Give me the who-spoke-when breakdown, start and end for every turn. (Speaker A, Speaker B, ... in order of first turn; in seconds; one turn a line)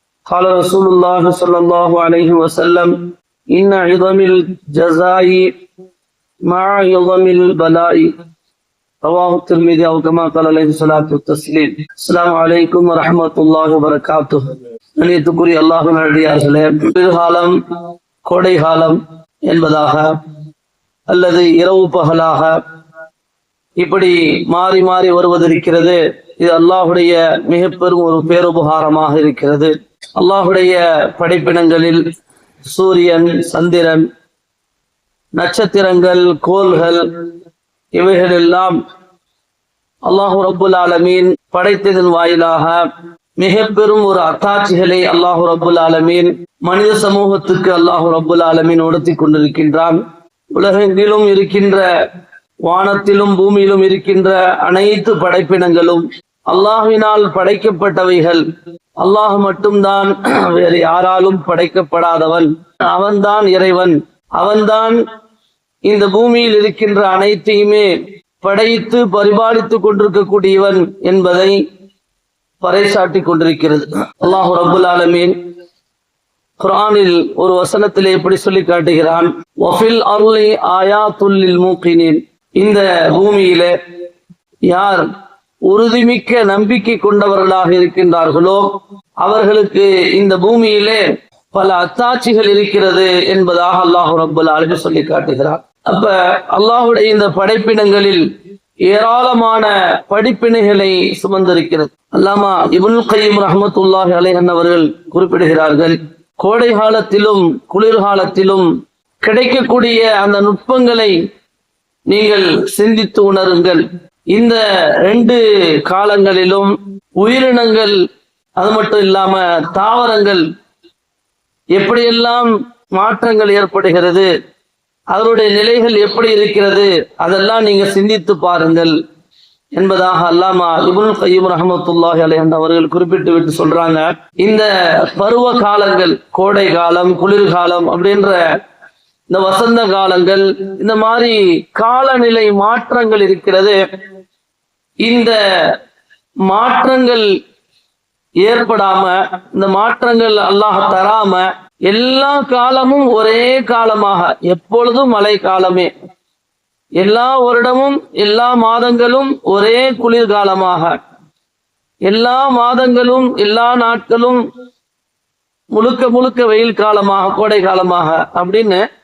Speaker A: 0.3-5.5
Speaker A: 6.5-8.1
Speaker A: 9.0-17.6
Speaker A: 18.2-20.1
Speaker A: 21.1-22.6
Speaker A: 23.8-32.0
Speaker A: 32.7-34.0
Speaker A: 35.4-37.1
Speaker A: 37.9-38.8
Speaker A: 40.1-42.9
Speaker A: 43.4-50.0
Speaker A: 50.5-52.0
Speaker A: 52.6-58.4
Speaker A: 59.0-65.0
Speaker A: 65.9-67.9
Speaker A: 68.4-71.6
Speaker A: 72.6-75.3
Speaker A: 76.6-83.7
Speaker A: 84.6-85.0
Speaker A: 85.7-98.2
Speaker A: 98.9-108.7
Speaker A: 109.2-111.1
Speaker A: 112.1-118.0
Speaker A: 118.6-120.4
Speaker A: 121.7-124.3
Speaker A: 125.1-128.9
Speaker A: 129.8-138.5
Speaker A: 139.3-143.8
Speaker A: 145.0-145.7
Speaker A: 146.4-147.2
Speaker A: 148.4-155.9
Speaker A: 157.0-160.9
Speaker A: 162.1-164.4
Speaker A: 165.7-168.8